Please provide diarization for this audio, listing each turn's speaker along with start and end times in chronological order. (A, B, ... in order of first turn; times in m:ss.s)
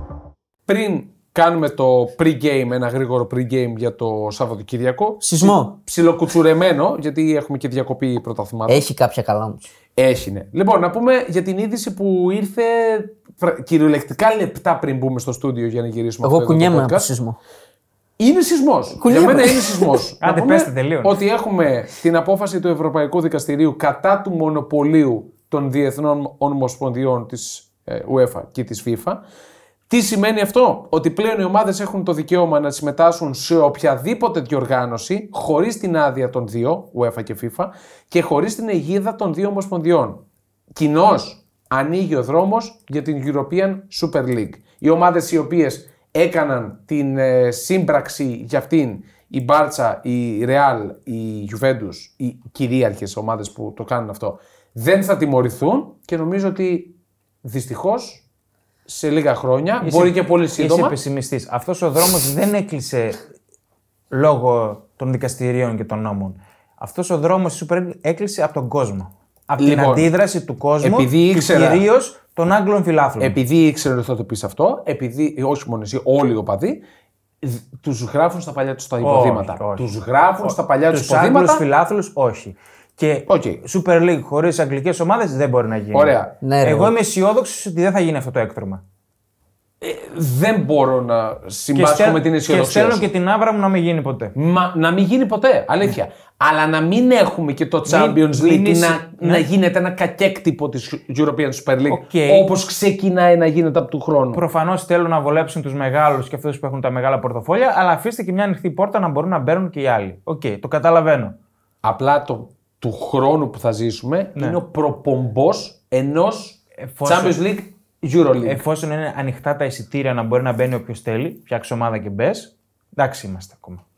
0:00.7-0:08.8 A
0:05.2-0:05.7 B
0:08.7-0:09.6 B
0:10.0-0:17.1 A
0:16.2-0:17.4 B
0:18.2-0:29.2 A
0:19.0-0:20.0 B
0:20.2-0:21.2 C
0:29.9-0:40.2 A
0:40.7-0:58.2 A
0:58.9-1:01.0 A
0:59.8-1:03.2 C
1:04.1-1:13.4 C
1:09.6-1:10.1 A
1:10.8-1:11.9 A
1:13.2-1:16.8 A
1:17.4-1:21.6 A
1:19.0-1:19.9 C
1:20.4-1:28.8 C
1:23.3-1:23.6 A
1:25.9-1:26.3 A
1:26.4-1:26.9 B
1:29.8-1:33.0 A
1:31.7-1:34.3 C
1:34.4-1:44.4 A
1:37.9-1:39.5 C
1:41.9-1:42.5 C
1:44.3-1:51.4 C
1:51.8-1:58.6 A
1:56.8-1:57.4 C
1:58.4-2:03.8 C